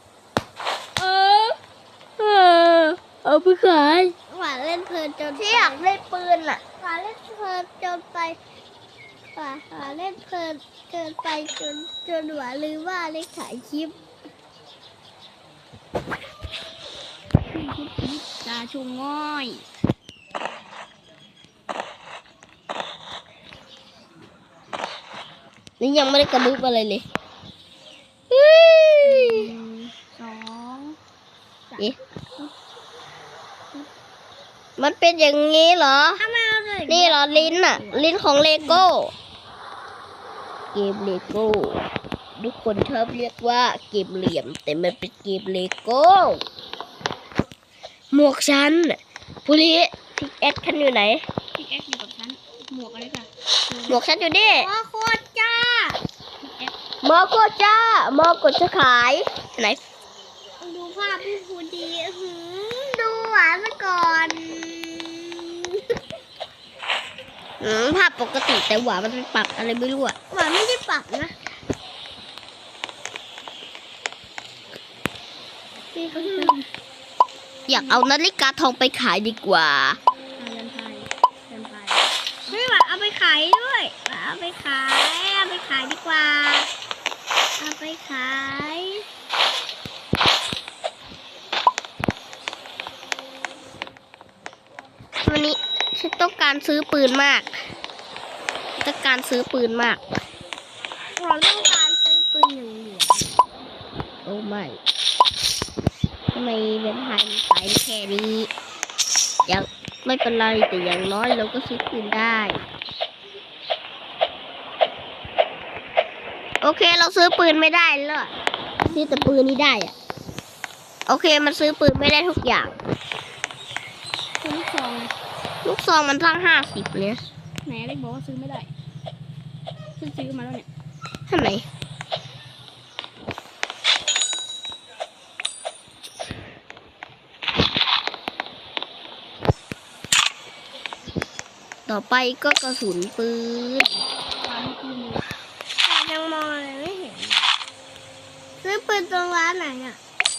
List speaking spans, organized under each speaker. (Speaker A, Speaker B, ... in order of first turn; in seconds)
Speaker A: 1.0-1.5, 2.2-4.2, 5.4-6.6, 25.8-27.1, 28.3-29.5, 34.8-36.2, 36.9-39.1, 40.7-41.9, 42.4-46.4, 48.1-51.2, 53.9-54.7, 57.0-59.8, 67.6-70.2, 77.7-80.0, 95.2-97.5, 98.8-100.0, 104.2-104.8, 106.3-108.5, 109.5-112.6, 116.6-118.3, 118.9-119.9, 121.1-122.8, 125.7-127.2, 131.3-131.7, 141.9-143.9
Speaker B: 4.3-5.8, 6.8-8.4, 9.3-13.9, 36.2-38.1, 53.7-56.0, 60.6-65.8, 70.3-71.3, 75.9-76.6, 82.5-86.7, 87.6-89.0, 101.2-103.3, 145.8-147.5, 148.6-150.0
Speaker C: 17.5-19.6, 29.0-31.0, 51.6-53.3, 56.4-56.7, 76.2-76.6, 80.4-82.0, 118.9-119.2, 124.4-125.1, 127.7-128.7, 130.0-130.7, 144.4-145.2